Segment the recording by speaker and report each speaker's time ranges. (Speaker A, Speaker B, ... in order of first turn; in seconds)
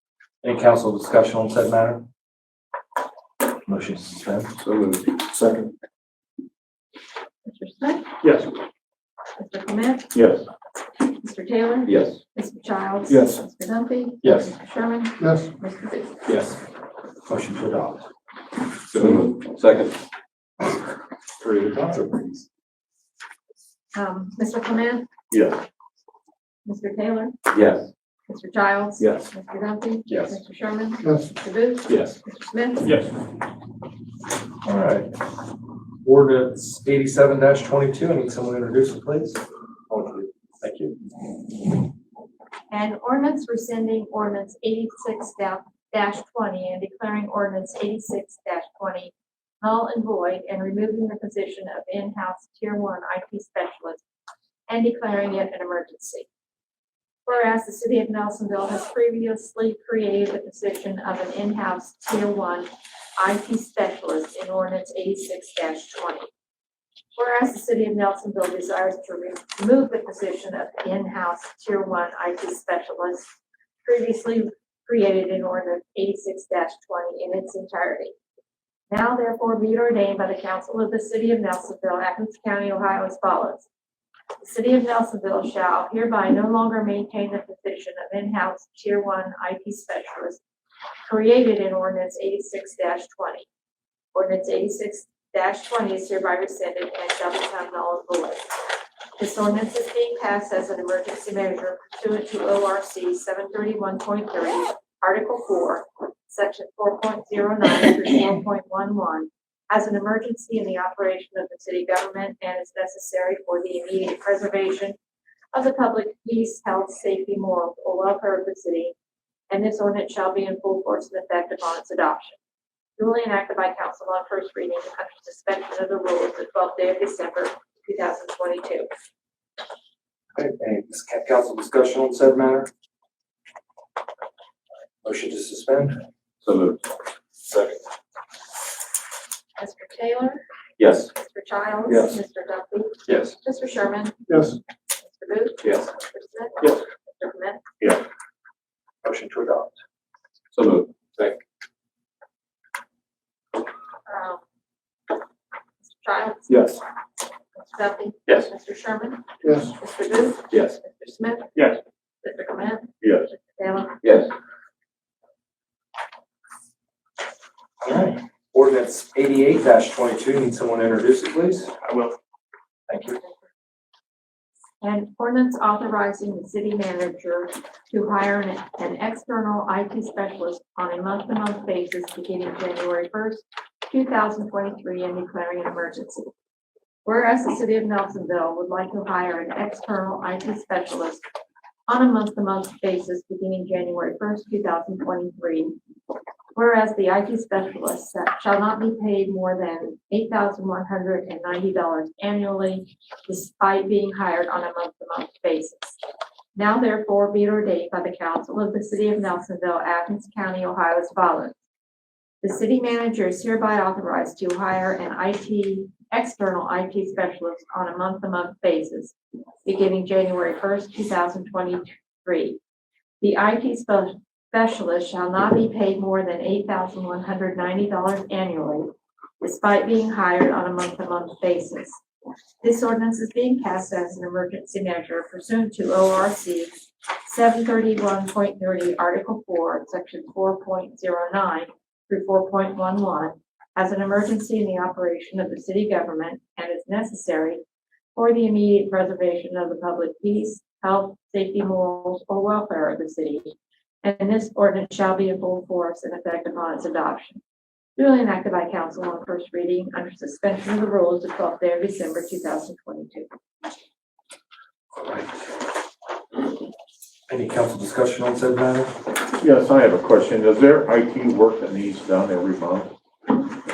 Speaker A: 0.4-2.0, 3.7-4.5, 5.3-5.7, 13.1-13.4, 14.2-14.5, 16.2-16.5, 17.2-18.1, 21.4-22.4, 30.1-30.3, 34.6-35.1, 36.0-40.9, 130.3-132.7, 135.0-136.0, 137.5-137.8, 144.3-144.6, 149.0-149.7, 167.8-171.7, 172.9-173.2, 264.9-265.3, 267.3-268.9
Speaker B: 4.6-5.2, 10.1-10.4, 11.8-12.2, 18.9-20.0, 25.3-25.6, 27.5-27.9, 29.0-29.3, 31.9-32.2, 136.4-136.8, 140.8-141.1, 141.9-142.1, 145.6-145.9, 150.5-151.4, 156.5-156.8, 160.5-160.8, 163.0-163.3, 164.0-164.3
Speaker C: 7.4-8.1, 9.4-10.1, 11.0-16.1, 23.9-25.1, 26.6-27.3, 28.3-32.9, 42.7-54.0, 54.7-56.3, 57.2-66.3, 67.1-73.3, 73.8-78.2, 78.9-83.7, 84.4-90.4, 91.0-93.5, 94.1-98.5, 99.2-115.0, 115.5-118.9, 119.5-122.4, 123.0-128.9, 139.6-140.4, 141.1-147.6, 154.1-154.4, 155.8-156.8, 157.5-161.6, 162.2-164.0, 174.8-186.3, 187.0-191.2, 191.9-195.7, 196.5-206.0, 206.5-211.6, 212.4-222.6, 223.2-232.0, 232.6-247.6, 248.2-257.4, 258.0-263.3
Speaker D: 269.4-272.9